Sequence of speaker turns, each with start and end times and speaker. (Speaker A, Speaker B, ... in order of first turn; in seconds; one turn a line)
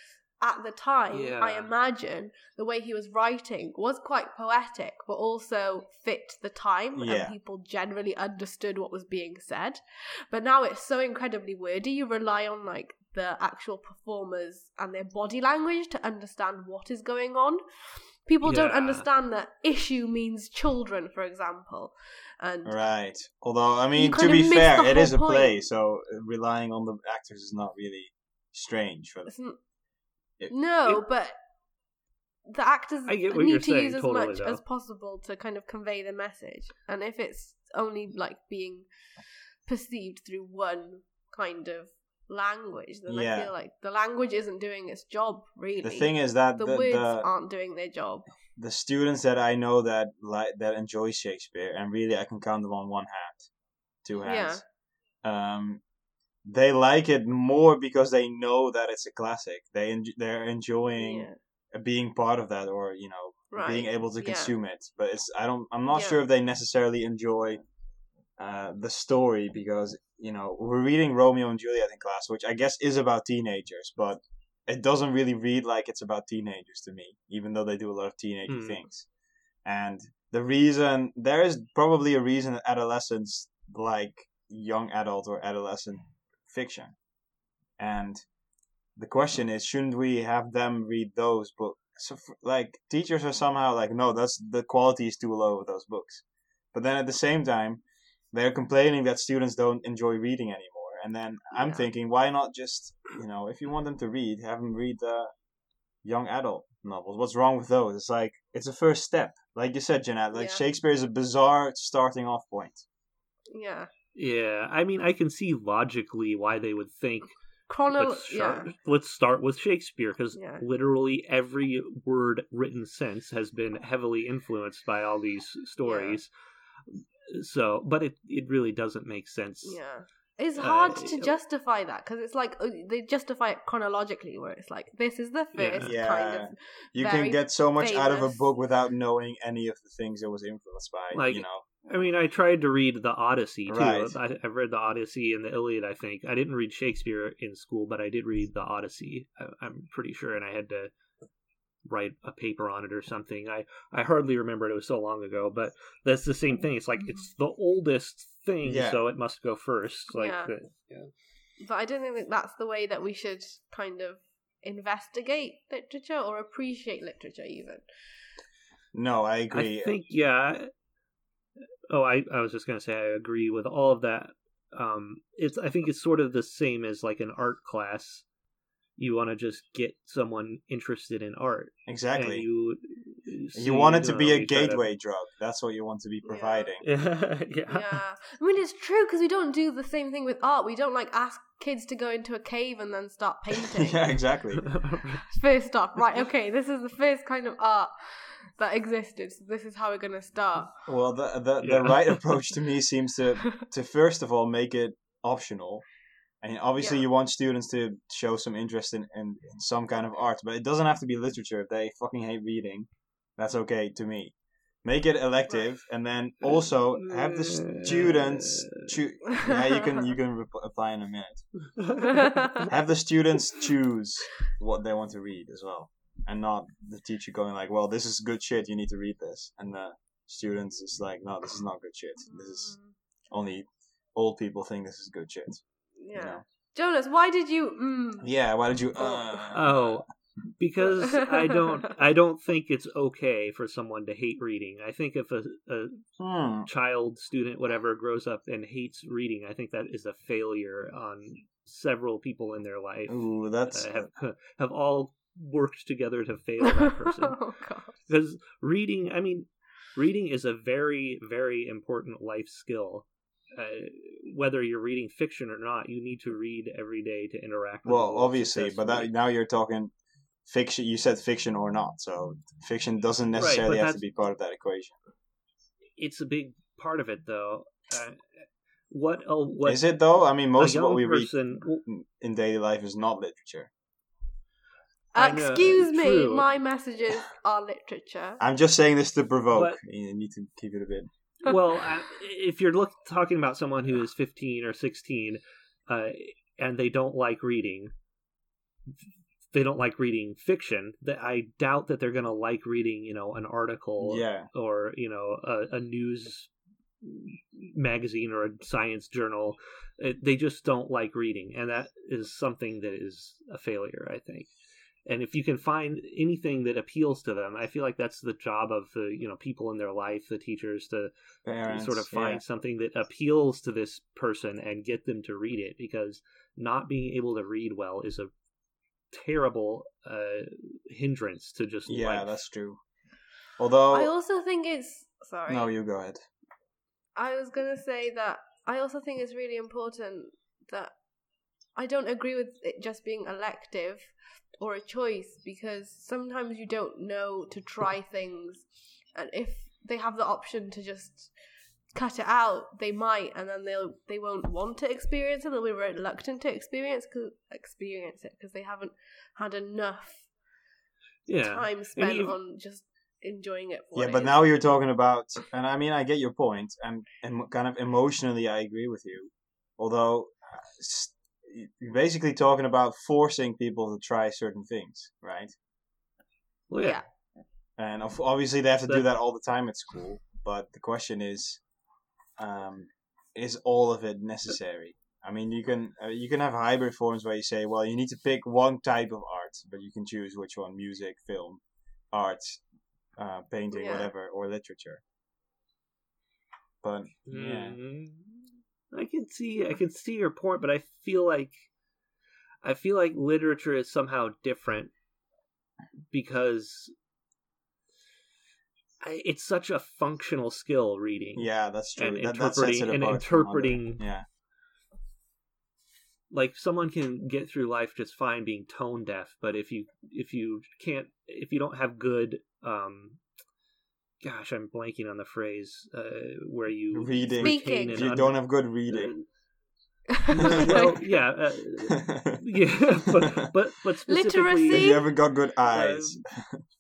Speaker A: 0.4-17.6
Speaker B: 1.1-1.7
Speaker C: 6.9-7.3
Speaker A: 18.2-22.8
Speaker B: 18.4-19.1
Speaker C: 22.6-29.3
Speaker A: 23.9-25.5
Speaker A: 29.3-29.6
Speaker A: 30.5-31.4
Speaker A: 32.5-38.9
Speaker B: 33.1-34.6
Speaker A: 39.7-48.3
Speaker C: 43.1-43.5
Speaker C: 45.8-47.3
Speaker C: 48.6-53.5
Speaker C: 54.0-54.6
Speaker A: 54.2-54.6
Speaker C: 55.2-55.8
Speaker C: 56.4-67.6
Speaker A: 61.0-61.4
Speaker A: 63.5-64.5
Speaker A: 65.9-66.2
Speaker C: 68.4-79.1
Speaker B: 78.5-78.8
Speaker C: 79.7-87.0
Speaker C: 87.8-88.2
Speaker C: 89.0-97.8
Speaker C: 98.3-105.3
Speaker A: 101.5-101.9
Speaker C: 106.0-112.8
Speaker A: 110.3-110.6
Speaker A: 113.5-113.9
Speaker B: 114.2-117.3
Speaker A: 117.7-118.7
Speaker B: 117.9-126.3
Speaker A: 120.4-120.6
Speaker A: 125.8-126.2
Speaker B: 126.9-129.8
Speaker A: 129.6-138.4
Speaker B: 130.6-131.3
Speaker B: 135.6-135.9
Speaker C: 135.8-141.8
Speaker B: 141.1-150.9
Speaker C: 143.7-144.2
Speaker B: 151.8-161.1
Speaker C: 158.6-159.0
Speaker A: 160.1-160.5
Speaker A: 161.6-167.8
Speaker C: 168.9-169.9
Speaker B: 169.5-170.7
Speaker B: 171.9-178.3
Speaker B: 179.0-184.8
Speaker C: 181.9-182.4
Speaker C: 183.6-186.8
Speaker A: 186.2-186.7
Speaker B: 186.8-187.9
Speaker A: 187.7-194.1
Speaker C: 193.6-194.8
Speaker B: 194.7-195.2
Speaker A: 195.3-200.8
Speaker C: 200.9-205.8
Speaker B: 201.6-202.3
Speaker C: 206.4-221.4
Speaker B: 216.4-218.9
Speaker A: 219.4-220.0
Speaker B: 221.8-222.1
Speaker A: 222.1-222.7
Speaker C: 222.7-232.8
Speaker A: 232.3-232.9
Speaker C: 233.3-235.6
Speaker A: 236.0-238.3
Speaker C: 236.1-236.4
Speaker C: 238.2-240.0
Speaker B: 239.5-240.1
Speaker B: 240.6-246.0
Speaker A: 241.0-241.6
Speaker C: 246.2-246.7
Speaker B: 246.7-257.4
Speaker C: 253.1-253.9
Speaker A: 256.6-257.9
Speaker B: 258.1-269.1
Speaker C: 267.8-269.9
Speaker C: 270.4-274.9
Speaker B: 273.4-274.0
Speaker B: 276.0-279.9
Speaker C: 279.6-283.7
Speaker B: 280.6-281.8
Speaker A: 285.1-288.4
Speaker B: 285.2-286.5
Speaker C: 288.4-291.1
Speaker B: 289.5-289.8
Speaker B: 291.4-297.9
Speaker B: 299.5-306.5
Speaker C: 304.0-304.5
Speaker B: 307.0-314.5
Speaker B: 315.1-321.1
Speaker C: 321.4-322.4
Speaker B: 321.7-328.3
Speaker B: 329.1-332.4
Speaker C: 331.9-332.8
Speaker C: 333.6-334.1
Speaker A: 333.9-335.7
Speaker C: 335.5-336.2
Speaker A: 337.2-340.9
Speaker A: 341.8-351.3
Speaker A: 351.9-360.3
Speaker B: 361.3-362.4
Speaker A: 361.4-364.4
Speaker C: 363.9-375.5
Speaker B: 376.7-377.0
Speaker A: 376.8-377.1
Speaker C: 377.8-381.6
Speaker C: 382.4-391.6
Speaker C: 392.1-392.6
Speaker C: 393.2-395.0
Speaker A: 393.7-394.1
Speaker C: 396.8-397.8
Speaker B: 397.3-401.7
Speaker B: 402.6-404.9
Speaker B: 406.1-406.9
Speaker B: 409.0-414.0
Speaker C: 411.4-414.2
Speaker B: 416.3-423.2
Speaker B: 424.2-429.2
Speaker C: 426.9-429.1
Speaker A: 427.4-428.1
Speaker A: 430.1-430.9
Speaker C: 430.3-430.8
Speaker B: 430.4-435.1
Speaker C: 431.8-432.4
Speaker C: 433.1-433.4
Speaker A: 434.1-435.0
Speaker C: 434.7-436.6
Speaker B: 435.7-436.2